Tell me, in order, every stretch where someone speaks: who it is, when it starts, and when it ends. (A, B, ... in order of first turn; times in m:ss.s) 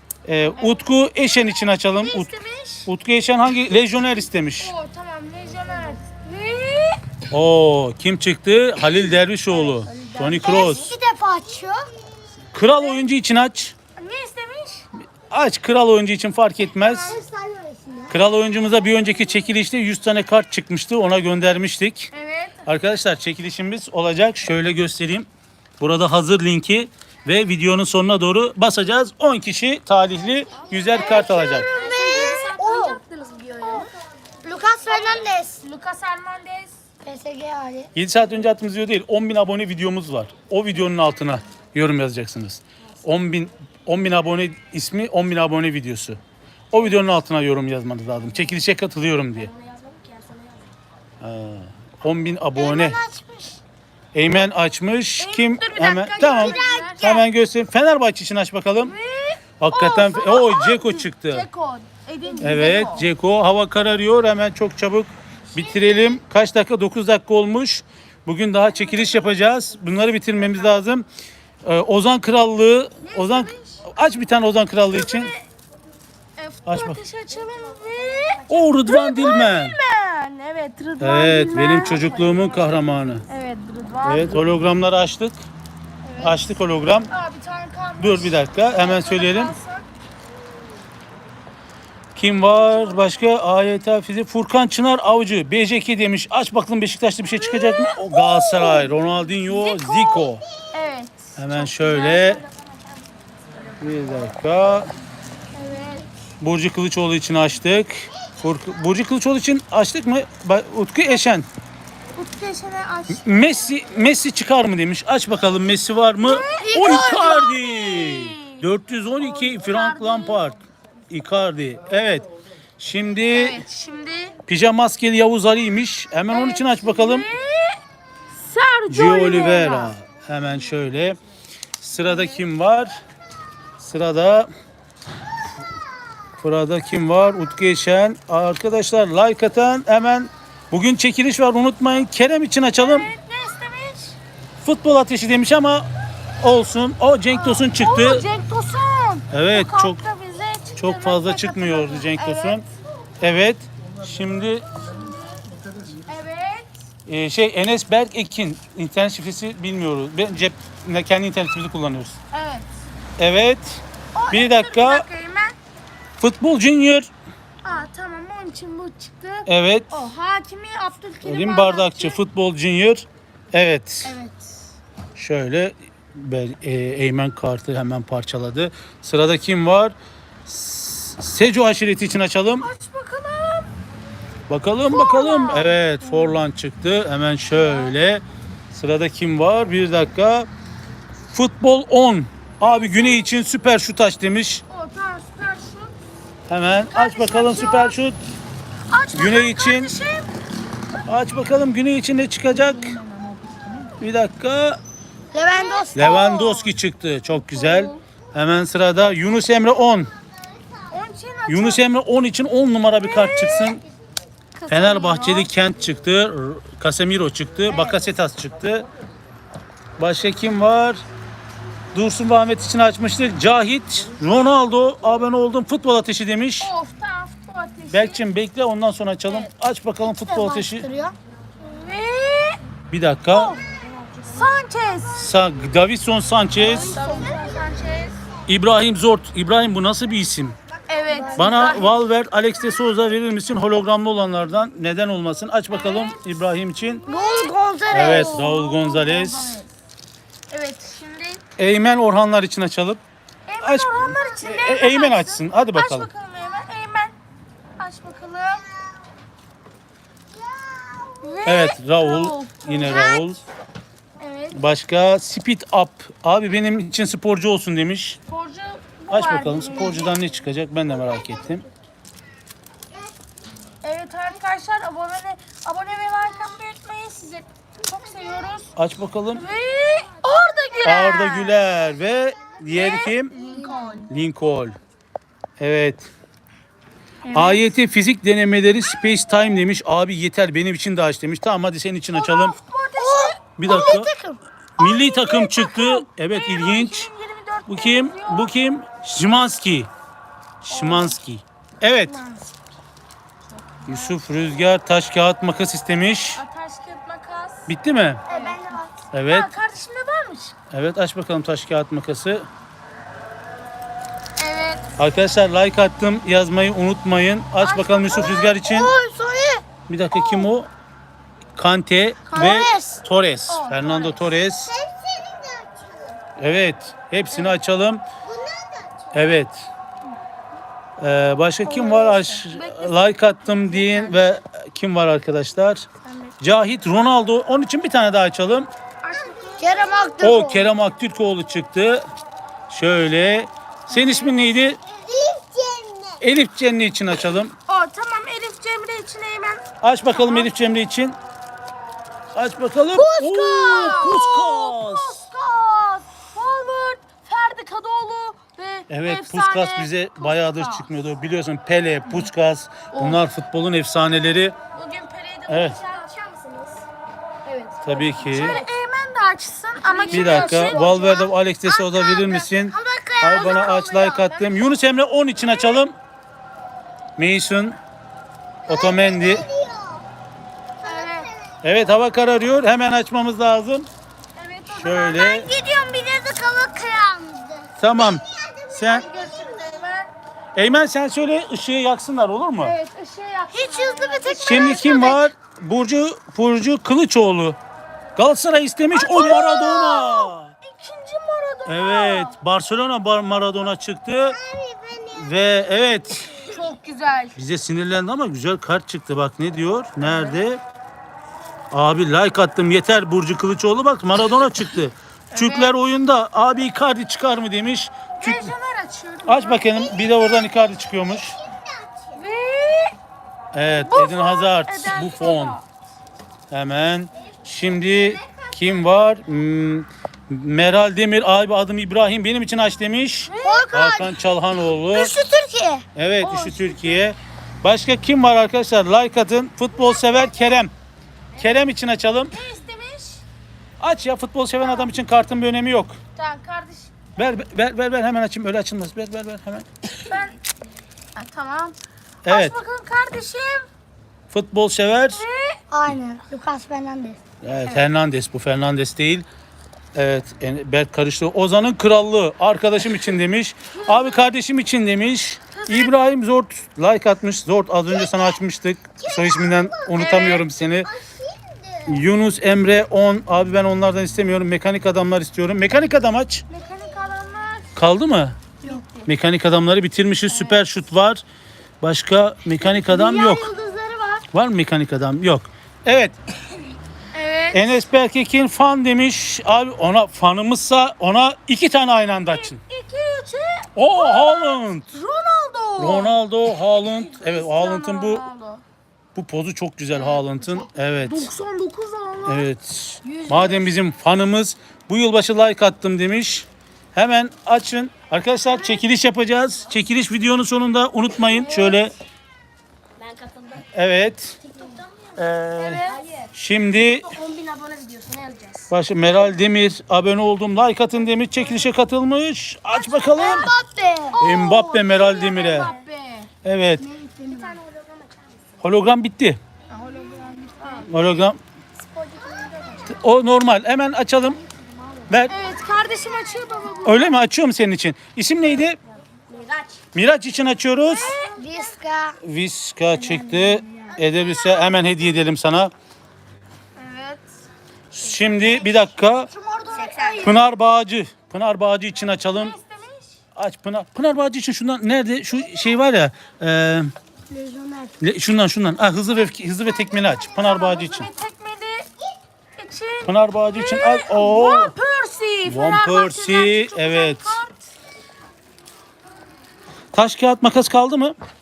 0:00.2-0:04.7 A
0:02.0-0:02.9 B
0:04.6-0:07.0 B
0:07.3-0:10.9 A
0:09.5-0:10.9 B
0:10.4-0:11.8 C
0:12.5-0:13.7 A
0:14.0-0:14.8 B
0:15.3-0:17.2 A
0:16.7-0:17.2 B
0:17.0-0:18.2 C
0:18.1-0:22.1 A
0:22.1-0:22.6 B
0:22.6-0:25.3 A
0:25.8-0:31.7 A
0:30.9-0:33.9 B
0:30.9-0:33.0 C
0:34.4-0:35.6 C
0:34.8-0:36.7 B
0:37.0-0:37.9 C
0:37.9-0:46.2 A
0:46.7-0:49.5 A
0:49.5-0:50.4 B
0:51.2-0:53.0 A
0:52.6-0:53.5 C
0:52.6-0:53.2 B
0:54.1-0:59.0 A
0:55.2-0:57.2 B
0:56.2-0:57.1 C
0:58.8-1:03.1 B
0:59.6-1:01.5 A
1:02.4-1:11.0 A
1:05.5-1:06.0 B
1:08.7-1:09.4 B
1:11.6-1:15.3 A
1:13.0-1:13.8 B
1:14.9-1:15.4 B
1:16.4-1:22.7 B
1:16.6-1:17.0 A
1:18.5-1:19.8 A
1:21.0-1:23.2 A
1:23.3-1:24.4 B
1:24.0-1:25.4 A
1:26.0-1:26.5 B
1:26.2-1:27.1 A
1:27.1-1:29.8 B
1:28.0-1:29.5 A
1:32.2-1:40.4 A
1:32.2-1:33.2 B
1:37.2-1:38.9 B
1:39.6-1:40.0 B
1:40.7-1:42.6 B
1:41.4-1:42.4 A
1:43.8-1:44.9 A
1:45.5-1:46.1 B
1:46.4-1:51.5 A
1:52.1-1:53.2 B
1:53.1-2:02.2 A
1:56.2-1:58.6 B
1:56.5-1:57.6 C
1:59.4-2:00.4 B
2:02.8-2:03.6 A
2:03.3-2:04.4 B
2:04.5-2:07.3 A
2:06.3-2:07.8 B
2:08.3-2:09.9 B
2:08.9-2:11.2 A
2:11.8-2:13.0 A
2:12.0-2:12.4 B
2:13.8-2:14.5 A
2:16.4-2:23.1 A
2:22.8-2:24.2 B
2:24.6-2:25.9 A
2:26.4-2:28.2 A
2:27.3-2:32.6 B
2:29.3-2:30.0 A
2:30.8-2:32.6 A
2:33.2-2:34.7 A
2:34.8-2:36.7 B
2:37.1-2:42.2 A
2:42.3-2:42.7 B
2:43.2-2:45.0 A
2:44.1-2:45.6 B
2:46.2-2:47.1 A
2:47.6-2:52.2 B
2:49.4-2:49.9 A
2:51.2-2:54.1 A
2:54.0-2:54.5 B
2:55.2-2:59.9 A
3:00.4-3:02.7 A
3:02.6-3:03.7 B
3:04.5-3:10.5 A
3:04.9-3:06.4 B
3:07.5-3:07.9 B
3:11.3-3:14.6 A
3:12.6-3:13.3 B
3:14.7-3:15.9 B
3:16.5-3:18.2 A
3:16.8-3:18.0 B
3:18.9-3:20.3 B
3:19.1-3:19.9 A
3:21.1-3:23.0 A
3:22.5-3:24.0 B
3:24.0-3:24.8 A
3:25.3-3:26.4 C
3:25.5-3:26.7 B
3:25.9-3:30.1 A
3:27.4-3:28.0 B
3:30.9-3:31.9 B
3:31.5-3:33.8 A
3:32.9-3:33.8 B
3:34.5-3:35.5 B
3:34.7-3:38.9 A
3:40.0-3:41.0 A
3:41.9-3:46.7 A
3:46.6-3:48.2 B
3:47.9-3:50.9 A
3:50.1-3:51.1 C
3:51.6-3:52.6 B
3:52.9-3:53.6 A
3:53.3-3:53.6 B
3:54.2-3:55.3 B
3:55.2-3:57.0 A
3:56.6-3:57.6 C
3:56.6-3:58.2 B
3:58.5-4:00.6 A
4:00.9-4:02.0 B
4:01.0-4:01.9 C
4:01.4-4:07.0 A
4:05.7-4:06.2 B
4:06.8-4:09.7 B
4:07.0-4:08.5 C
4:07.9-4:09.6 A
4:10.5-4:11.4 B
4:11.6-4:13.0 A
4:13.5-4:17.1 B
4:13.6-4:16.1 A
4:17.8-4:18.7 B
4:20.3-4:21.3 C
4:21.2-4:23.4 B
4:21.4-4:23.4 A
4:24.2-4:24.6 B
4:24.5-4:28.2 A
4:28.3-4:30.3 B
4:29.1-4:31.6 A
4:33.8-4:38.7 B
4:38.7-4:39.4 A
4:39.4-4:41.6 B
4:40.8-4:43.3 A
4:42.7-4:44.1 B
4:43.4-4:44.1 C
4:44.1-4:44.8 A
4:45.6-4:46.1 A
4:47.2-4:47.6 B
4:47.3-4:52.5 A
4:52.1-4:53.4 B
4:53.0-4:54.4 C
4:53.6-4:54.1 A
4:54.8-4:57.1 A
4:54.8-4:58.5 B
4:57.7-4:59.9 A
5:00.6-5:02.2 A
5:00.7-5:01.2 B
5:02.1-5:02.4 B
5:03.7-5:04.2 B
5:03.8-5:06.4 A
5:06.4-5:07.7 B
5:07.7-5:08.2 A
5:08.3-5:08.9 C
5:08.3-5:08.6 B
5:09.1-5:09.5 A
5:09.3-5:10.6 B
5:10.7-5:12.5 A
5:14.4-5:14.9 B
5:15.0-5:18.9 A
5:17.6-5:18.5 B
5:18.2-5:19.6 C
5:19.9-5:20.7 A
5:21.6-5:24.7 A
5:22.3-5:22.6 B
5:22.3-5:23.0 C
5:23.5-5:24.3 B
5:24.6-5:26.2 C
5:26.4-5:28.0 A
5:27.3-5:27.6 B
5:28.2-5:29.3 C
5:29.1-5:29.7 A
5:31.0-5:35.8 A
5:31.7-5:34.2 B
5:36.4-5:38.7 A
5:39.0-5:40.2 B
5:39.5-5:40.7 C
5:40.2-5:42.1 A
5:42.7-5:44.8 A
5:43.9-5:44.4 B
5:44.8-5:46.2 C
5:46.2-5:47.5 A
5:47.7-5:50.5 B
5:49.8-5:51.2 A
5:52.3-5:55.2 A
5:52.9-6:00.9 B
5:58.9-6:04.6 A
6:02.9-6:03.2 B
6:04.7-6:06.2 B
6:05.5-6:05.8 A
6:05.9-6:06.8 C
6:07.4-6:12.5 B
6:07.8-6:08.6 A
6:10.0-6:11.2 C
6:10.1-6:15.9 A
6:12.7-6:13.9 C
6:13.2-6:14.6 B
6:17.2-6:17.8 A
6:18.7-6:19.4 A
6:18.7-6:20.0 C
6:20.8-6:21.3 B
6:20.8-6:21.6 C
6:21.6-6:23.9 A
6:24.4-6:25.5 B
6:24.7-6:25.5 A
6:25.1-6:29.7 C
6:27.8-6:29.1 A
6:28.9-6:30.1 B
6:30.5-6:32.8 A
6:32.6-6:35.2 B
6:33.5-6:35.3 C
6:34.4-6:37.6 A
6:38.2-6:40.5 A
6:38.9-6:42.3 B
6:41.6-6:44.4 A
6:44.2-6:45.3 C
6:45.1-6:46.3 A
6:46.3-6:46.6 C
6:46.4-6:47.3 B
6:47.4-6:50.6 A
6:50.0-6:50.4 B
6:51.7-6:58.5 A
6:55.3-6:55.7 B
6:58.2-7:00.0 B
6:59.2-7:01.4 A
6:59.8-7:00.7 C
7:01.4-7:02.2 C
7:02.1-7:03.0 B
7:03.5-7:05.6 A
7:03.8-7:05.6 B
7:06.5-7:15.2 A
7:13.3-7:14.1 B
7:13.4-7:14.2 C
7:14.8-7:16.8 C
7:16.0-7:20.7 A
7:21.4-7:22.3 A
7:22.3-7:23.2 B
7:23.8-7:26.0 A
7:26.1-7:26.9 B
7:27.2-7:29.7 A
7:30.0-7:30.4 B
7:31.2-7:33.7 B
7:32.2-7:32.5 A
7:34.3-7:35.2 A
7:35.1-7:35.6 B
7:35.7-7:37.2 C
7:37.4-7:39.2 A
7:39.9-7:50.9 A
7:43.7-7:44.3 B
7:45.5-7:46.0 B
7:47.9-7:48.4 C
7:49.0-7:52.0 C
7:51.8-7:56.4 A
7:56.5-7:57.7 B
7:57.7-7:58.4 A
7:58.6-7:59.0 B
7:59.0-8:01.2 A
8:00.3-8:00.6 B
8:01.8-8:03.5 A
8:02.6-8:04.3 C
8:04.3-8:06.2 A
8:07.1-8:07.7 B
8:07.5-8:12.6 A
8:12.3-8:16.2 B
8:13.8-8:14.9 A
8:15.8-8:18.2 A
8:16.8-8:18.6 B
8:19.1-8:21.3 A
8:19.9-8:22.5 B
8:22.2-8:31.9 A
8:23.0-8:23.7 B
8:31.3-8:31.8 B
8:33.6-8:34.4 A
8:34.4-8:34.8 B
8:35.2-8:37.1 A
8:35.6-8:36.3 B
8:37.2-8:38.6 B
8:37.5-8:38.2 C
8:38.7-8:43.5 A
8:43.0-8:45.0 C
8:44.2-8:45.7 A
8:44.2-8:46.3 B
8:46.4-8:46.8 A
8:46.8-8:48.0 C
8:47.3-8:47.6 B
8:48.6-8:49.4 A
8:49.7-8:50.9 B
8:50.9-8:51.4 A
8:52.0-8:52.9 C
8:52.8-8:54.4 A
8:55.1-8:55.3 A
8:55.3-8:57.2 B
8:56.8-8:58.8 A
8:59.9-9:01.2 A
9:00.9-9:01.4 B
9:01.1-9:02.2 C
9:02.2-9:05.7 A
9:02.9-9:04.0 C
9:06.8-9:07.2 B
9:07.9-9:09.3 A
9:08.5-9:10.4 C
9:09.8-9:10.2 B
9:10.2-9:12.6 A
9:12.3-9:13.2 B
9:13.3-9:16.9 A
9:17.3-9:18.0 C
9:18.0-9:21.1 A
9:20.2-9:21.9 B
9:22.6-9:27.6 B
9:23.0-9:24.7 A
9:25.4-9:27.4 A
9:29.9-9:31.2 A